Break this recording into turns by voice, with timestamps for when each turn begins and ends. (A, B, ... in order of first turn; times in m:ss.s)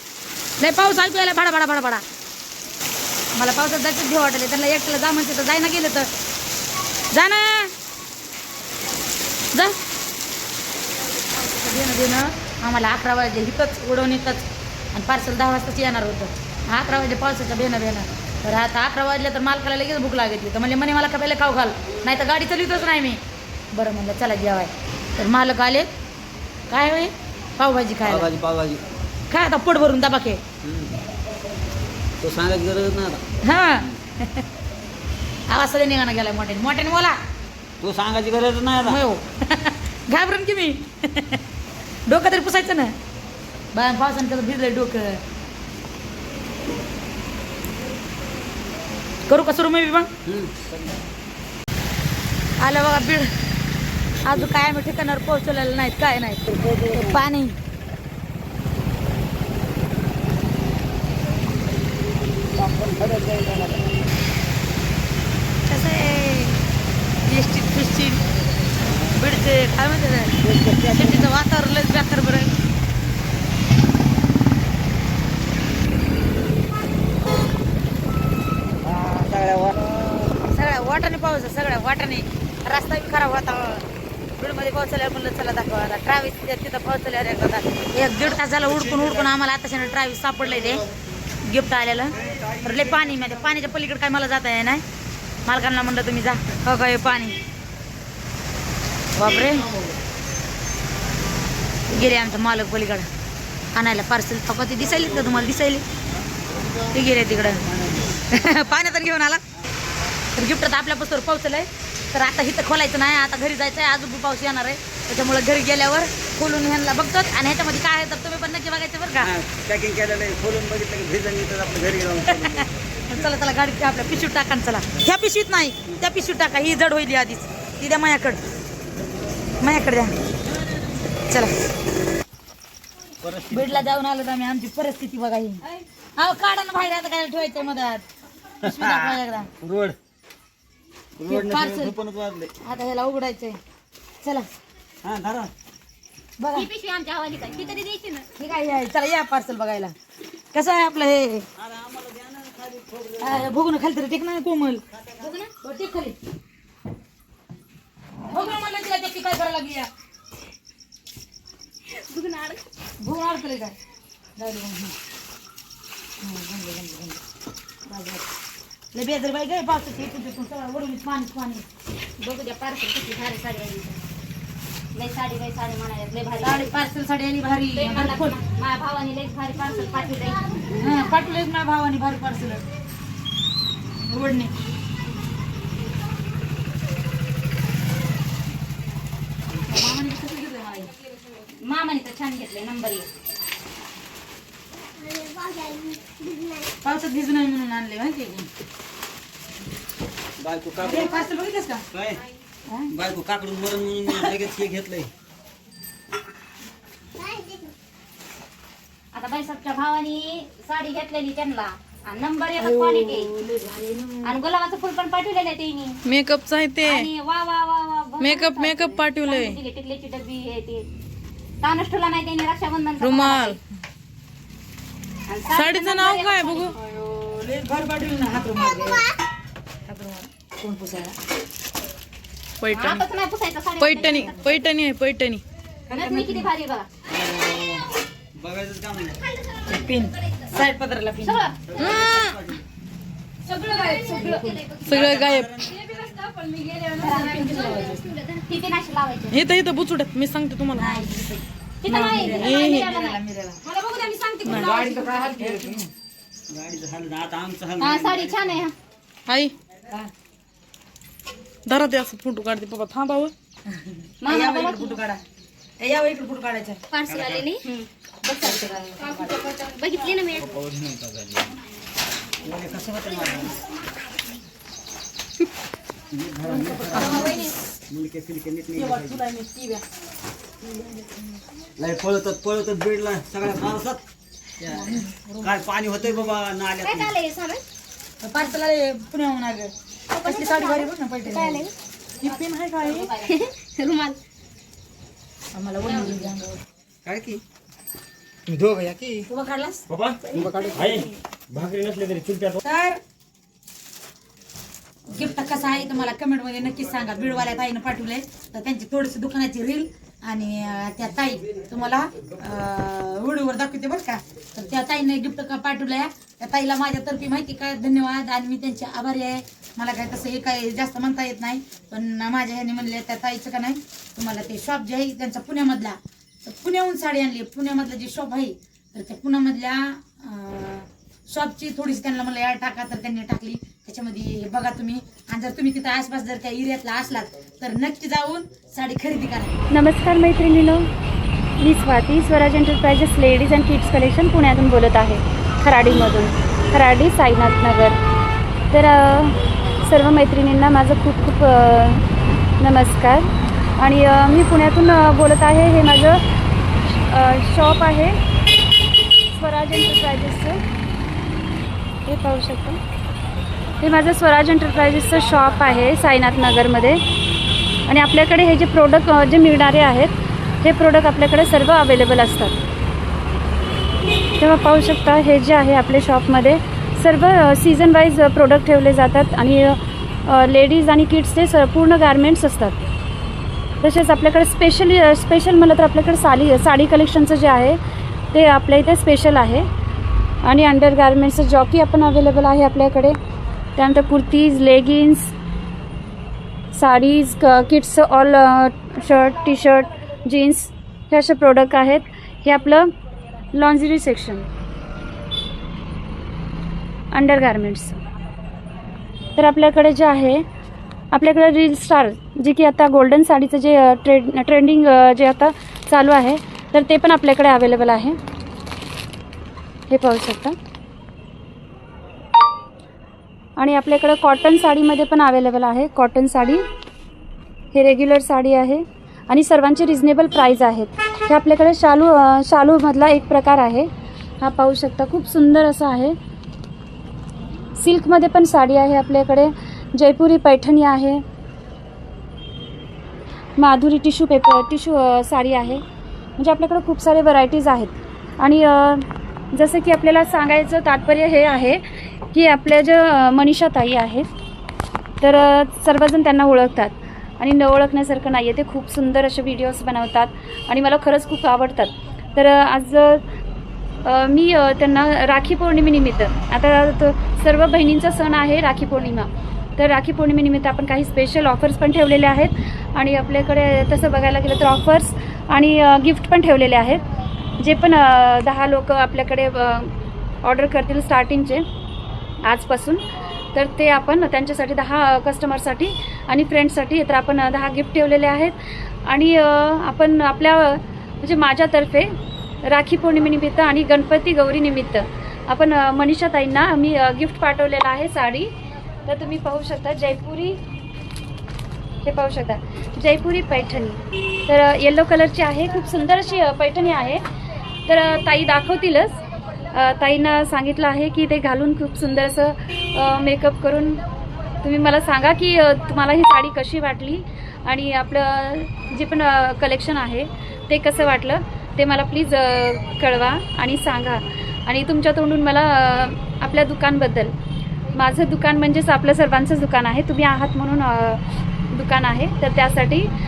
0:00.6-0:02.0 A
0:03.3-0:06.1 A
0:07.1-0:07.7 A
0:11.3-0:25.9 A
0:26.7-0:28.3 A
0:28.0-0:28.8 B
0:29.3-0:30.4 A
0:30.6-0:31.0 B
0:32.2-0:33.2 B
0:33.4-0:34.4 A
0:35.5-0:37.2 A
0:37.8-0:39.0 B
0:38.8-0:41.4 A
0:42.1-0:43.0 A
0:43.7-0:45.2 A
0:49.3-0:50.1 A
0:50.3-0:50.9 B
0:52.6-0:53.3 A
0:54.2-0:57.6 A
0:56.5-0:57.2 B
1:02.5-1:04.0 B
1:05.7-1:06.6 A
1:07.3-1:08.2 A
1:09.1-1:10.4 A
1:10.4-1:11.3 B
1:10.9-1:12.5 A
1:18.8-1:20.3 B
1:20.5-1:23.8 A
1:24.4-1:30.9 A
1:31.4-1:34.8 A
1:32.2-1:33.0 B
1:35.5-1:37.4 A
1:39.2-1:39.8 A
1:41.9-1:43.1 A
1:43.7-1:45.8 A
1:46.6-1:48.7 B
1:46.9-1:47.6 A
1:48.3-1:49.4 A
1:50.4-1:59.3 A
1:59.2-2:02.8 B
2:02.3-2:08.4 A
2:09.6-2:10.1 A
2:13.2-2:14.0 B
2:13.5-2:15.6 A
2:16.2-2:18.0 A
2:18.6-2:19.5 A
2:18.6-2:20.0 B
2:21.2-2:22.5 B
2:21.3-2:22.0 A
2:22.6-2:23.6 A
2:25.0-2:25.5 B
2:26.4-2:26.7 A
2:26.5-2:28.3 C
2:28.4-2:30.0 A
2:30.5-2:31.5 A
2:31.6-2:33.5 B
2:33.2-2:34.8 A
2:35.2-2:35.5 C
2:35.6-2:36.2 A
2:38.3-2:39.9 A
2:41.9-2:42.7 C
2:43.0-2:43.8 A
2:44.4-2:44.9 A
2:46.2-2:47.2 A
2:47.9-2:48.2 A
2:48.9-2:51.6 A
2:52.2-2:54.1 C
2:55.0-2:56.8 C
2:56.4-2:58.4 A
2:57.7-3:00.9 C
3:00.7-3:02.6 A
3:04.1-3:04.5 A
3:09.7-3:10.9 A
3:11.8-3:13.0 C
3:12.5-3:13.0 A
3:15.1-3:16.6 C
3:16.8-3:18.5 A
3:20.4-3:21.2 B
3:20.8-3:21.9 A
3:21.9-3:22.2 B
3:22.9-3:25.1 B
3:24.1-3:24.4 A
3:27.2-3:27.7 C
3:29.2-3:31.8 C
3:29.2-3:29.6 A
3:32.1-3:32.4 A
3:32.4-3:33.3 C
3:32.6-3:34.2 D
3:34.2-3:36.0 C
3:36.0-3:37.1 D
3:36.8-3:40.9 C
3:38.2-3:39.6 D
3:41.6-3:43.5 C
3:43.0-3:43.6 D
3:45.3-3:46.7 C
3:45.5-3:46.7 D
3:46.7-3:49.1 A
3:49.9-3:51.2 A
3:52.6-3:53.1 D
3:52.7-3:54.6 C
3:53.8-3:55.4 D
3:55.9-3:56.5 A
3:55.9-3:56.9 C
3:57.1-3:59.2 B
3:59.7-4:01.4 A
4:01.2-4:02.2 C
4:01.7-4:02.6 B
4:03.5-4:04.8 C
4:03.5-4:04.6 A
4:04.8-4:05.8 D
4:04.9-4:06.2 B
4:06.7-4:09.4 C
4:07.0-4:08.0 A
4:09.3-4:10.9 D
4:10.7-4:13.6 A
4:11.8-4:15.4 C
4:11.9-4:12.9 D
4:14.4-4:15.8 D
4:14.5-4:14.8 B
4:14.8-4:15.2 A
4:16.5-4:18.7 B
4:17.8-4:18.7 C
4:19.3-4:19.5 D
4:21.7-4:23.3 D
4:23.7-4:25.2 A
4:24.2-4:25.0 C
4:25.8-4:26.8 A
4:26.9-4:30.5 C
4:27.1-4:27.5 B
4:28.2-4:29.5 A
4:30.3-4:31.6 B
4:32.4-4:33.6 B
4:36.1-4:37.3 B
4:36.5-4:37.5 A
4:37.0-4:37.5 C
4:37.9-4:39.2 B
4:38.8-4:39.8 A
4:40.8-4:41.0 A
4:41.8-4:44.0 B
4:44.6-4:45.5 A
4:44.6-4:47.2 B
4:46.8-4:47.6 C
4:48.2-4:51.7 A
4:50.1-4:51.7 C
4:52.2-4:53.3 A
4:52.2-4:54.2 C
4:55.5-4:56.6 A
4:55.9-4:56.3 C
4:57.0-4:57.4 B
4:58.5-4:59.2 B
4:59.3-4:59.8 A
4:59.9-5:02.6 B
5:00.4-5:01.1 C
5:02.6-5:03.0 A
5:05.1-5:39.6 A
5:39.7-5:40.9 E
5:41.6-5:48.0 E
5:48.7-5:52.0 E
5:52.6-5:53.3 E
5:53.8-5:56.2 E
5:56.9-5:58.2 E
5:59.3-6:00.6 E
6:02.1-6:02.8 E
6:03.8-6:07.0 E
6:07.9-6:12.6 E
6:14.4-6:22.8 E
6:23.8-6:27.8 E
6:28.3-6:29.6 E
6:30.4-6:33.2 E
6:33.8-6:35.3 E
6:36.8-6:42.9 E
6:43.5-6:44.5 E
6:47.1-6:48.0 E
6:49.4-6:50.4 E
6:51.1-6:58.2 E
6:59.9-7:00.6 E
7:03.6-7:06.6 E
7:07.7-7:13.9 E
7:14.4-7:16.2 E
7:17.8-7:21.2 E
7:23.6-7:25.8 E
7:26.4-7:31.8 E
7:32.3-7:34.3 E
7:35.2-7:43.2 E
7:44.1-7:57.0 E
7:57.6-7:59.9 E
8:00.4-8:01.6 E
8:02.4-8:03.0 E
8:03.6-8:12.1 E
8:12.7-8:18.5 E
8:19.1-8:20.6 E
8:22.1-8:27.2 E
8:27.9-8:29.2 E
8:29.7-8:34.0 E
8:34.6-8:47.3 E
8:48.0-8:51.2 E
8:51.7-8:53.1 E